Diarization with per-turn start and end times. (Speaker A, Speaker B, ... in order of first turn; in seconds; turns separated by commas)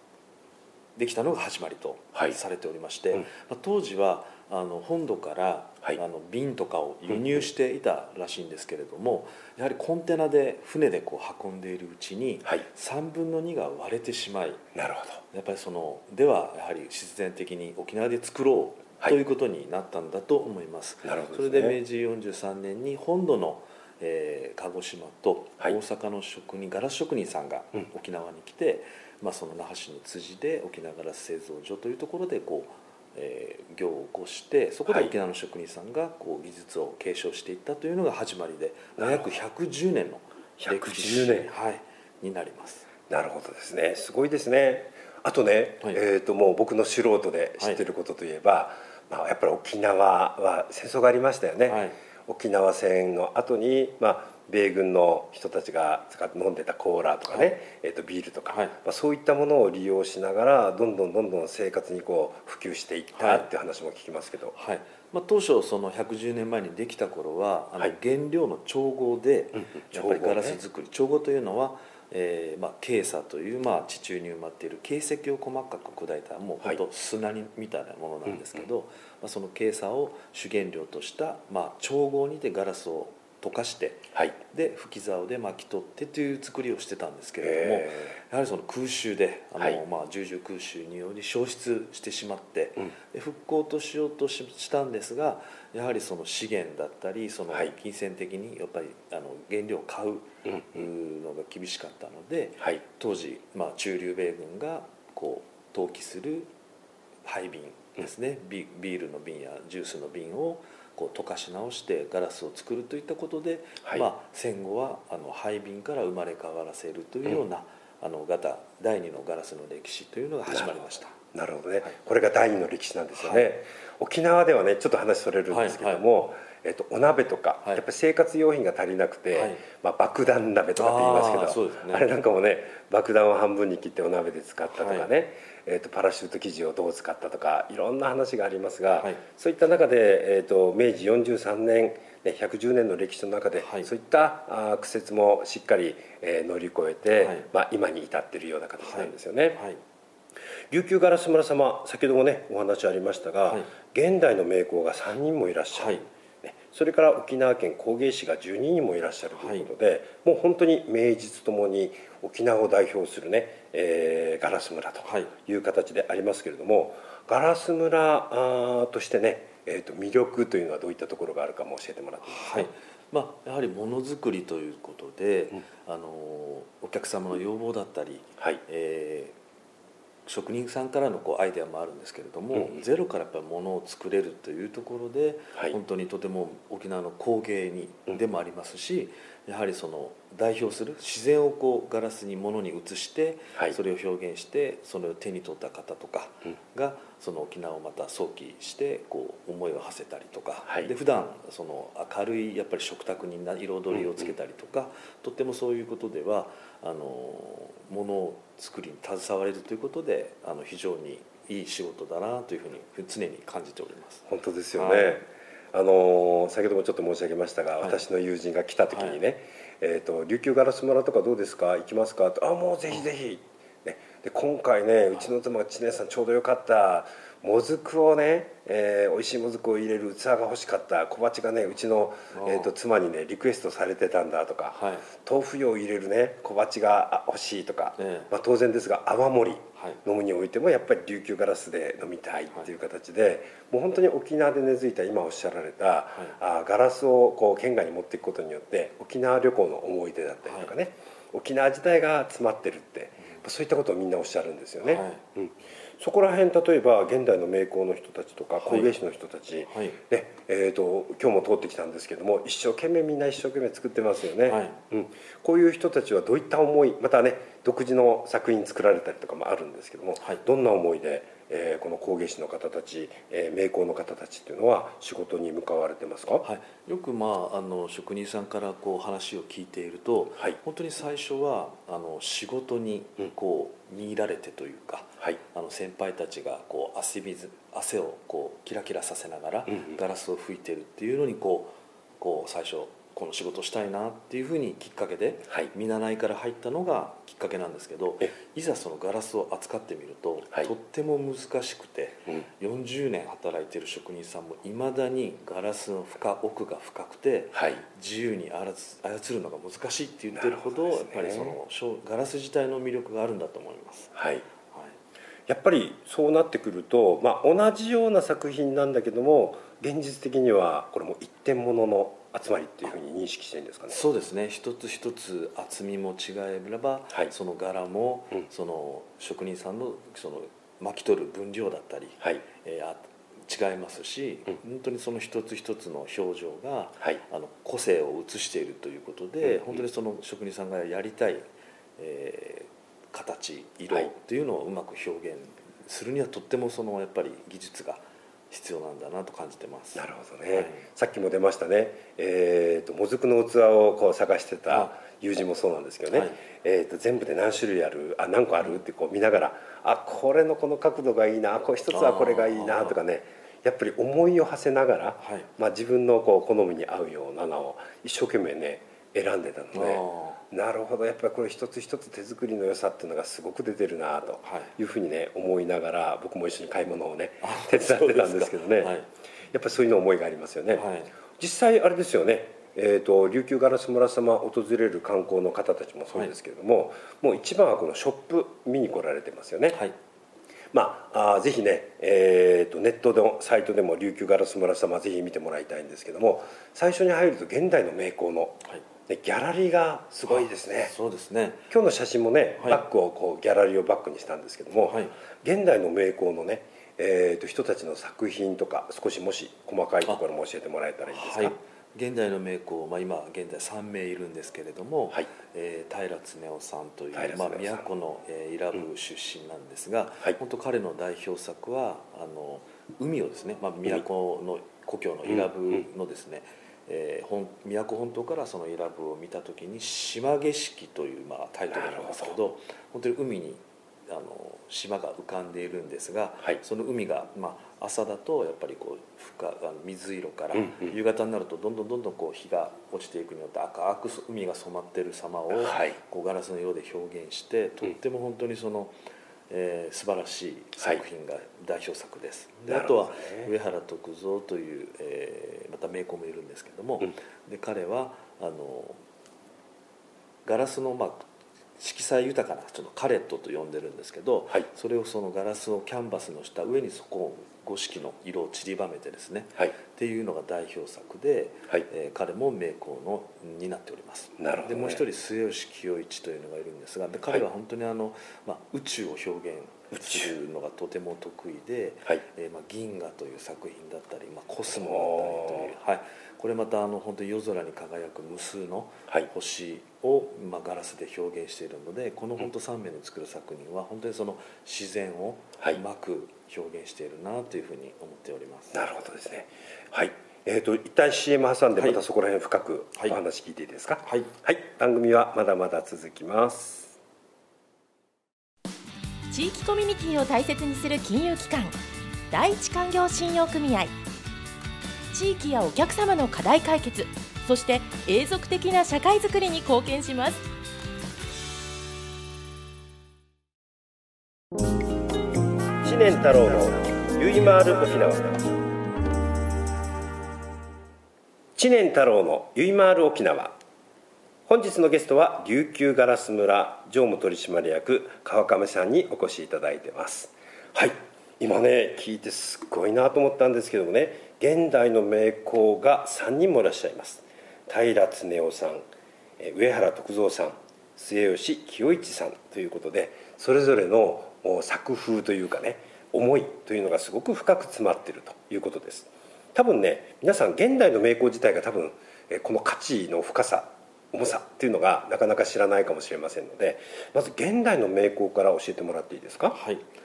Speaker A: 0.9-14.6, Speaker B: 14.7-15.2, Speaker A: 15.3-42.9, Speaker B: 21.0-21.8, Speaker B: 39.0-39.3, Speaker B: 40.6-41.5, Speaker B: 43.1-64.5, Speaker A: 51.7-52.0, Speaker A: 58.5-58.7, Speaker A: 63.1-63.5, Speaker A: 64.5-106.5, Speaker B: 69.6-70.6, Speaker B: 78.3-78.6, Speaker B: 87.4-87.9, Speaker B: 100.5-100.8, Speaker A: 107.2-121.2, Speaker B: 120.5-149.6, Speaker A: 123.2-123.4, Speaker A: 125.5-126.0, Speaker A: 129.3-129.6, Speaker A: 130.8-132.1, Speaker A: 134.7-135.1, Speaker A: 143.6-143.9, Speaker A: 147.2-147.5, Speaker A: 148.8-149.8, Speaker B: 150.7-172.7, Speaker A: 155.7-156.1, Speaker A: 159.4-159.7, Speaker A: 165.0-165.3, Speaker A: 172.2-179.3, Speaker A: 180.3-215.2, Speaker B: 203.9-204.2, Speaker B: 214.3-276.4, Speaker A: 218.9-219.2, Speaker A: 232.3-232.7, Speaker A: 234.7-235.1, Speaker A: 238.0-238.3, Speaker A: 239.8-240.0, Speaker A: 250.4-250.7, Speaker A: 254.8-255.2, Speaker A: 258.6-258.9, Speaker A: 259.7-260.0, Speaker A: 264.5-264.8, Speaker A: 276.4-314.9, Speaker B: 307.5-307.8, Speaker B: 310.3-311.6, Speaker B: 314.1-314.4, Speaker B: 315.5-324.0, Speaker A: 323.9-341.4, Speaker B: 339.4-339.8, Speaker A: 342.0-350.8, Speaker B: 349.9-378.9, Speaker A: 356.1-356.4, Speaker A: 361.9-362.9, Speaker A: 365.2-365.5, Speaker A: 369.7-370.4, Speaker A: 374.4-374.7, Speaker A: 377.4-379.1, Speaker B: 379.5-389.8, Speaker A: 380.7-381.1, Speaker B: 390.7-400.9, Speaker A: 400.3-401.7, Speaker B: 401.7-411.5, Speaker A: 404.8-405.1, Speaker A: 411.1-448.9, Speaker B: 417.1-417.9, Speaker B: 431.7-432.4, Speaker B: 440.5-440.9, Speaker B: 445.5-446.0, Speaker A: 449.5-459.0, Speaker B: 452.7-453.5, Speaker A: 460.4-461.3, Speaker A: 461.8-498.8, Speaker B: 474.4-475.0, Speaker B: 479.9-480.3, Speaker B: 484.7-485.7, Speaker B: 498.7-507.0, Speaker A: 504.0-504.3, Speaker C: 509.3-511.8, Speaker C: 512.3-513.9, Speaker C: 515.1-520.4, Speaker B: 525.8-528.5, Speaker B: 531.5-533.6, Speaker B: 534.5-548.9, Speaker B: 549.4-569.6, Speaker A: 569.5-569.9